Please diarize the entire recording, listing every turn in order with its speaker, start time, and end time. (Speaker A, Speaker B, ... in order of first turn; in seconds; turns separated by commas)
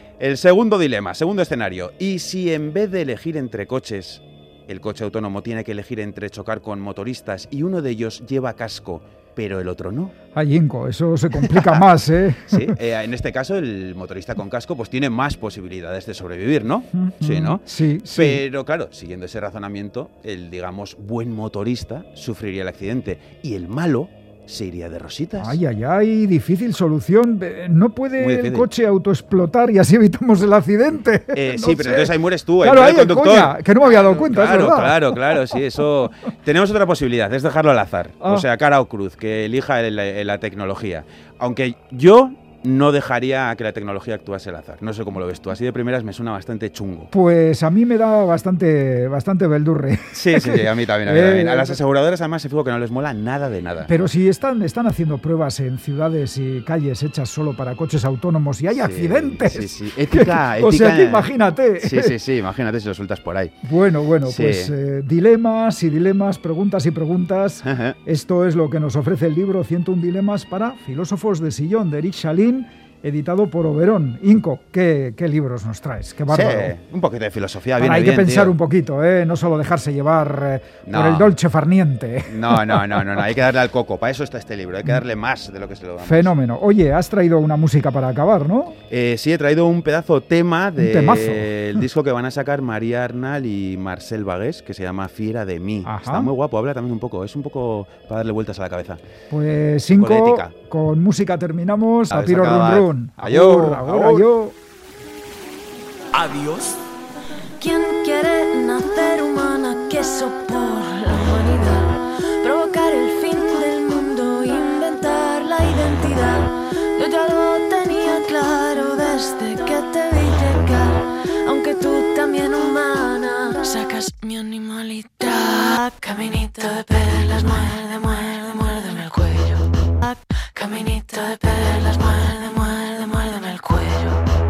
Speaker A: 0.2-10.1, Speaker B: 10.3-12.7, Speaker A: 11.3-11.9, Speaker A: 12.4-25.6, Speaker B: 16.9-18.4, Speaker B: 25.4-35.3, Speaker A: 28.2-28.7, Speaker A: 31.3-47.1, Speaker B: 47.1-51.8, Speaker A: 50.1-54.0, Speaker B: 53.8-62.1, Speaker A: 58.7-63.5, Speaker B: 63.6-76.7, Speaker A: 64.2-64.7, Speaker A: 67.6-68.0, Speaker A: 76.3-78.6, Speaker B: 77.8-83.2, Speaker A: 80.8-81.4, Speaker A: 82.3-86.3, Speaker B: 86.0-88.8, Speaker A: 88.9-99.0, Speaker B: 90.8-91.5, Speaker B: 95.8-96.3, Speaker B: 99.3-104.5, Speaker A: 99.9-100.5, Speaker A: 102.1-104.3, Speaker A: 106.2-106.7, Speaker C: 107.6-134.2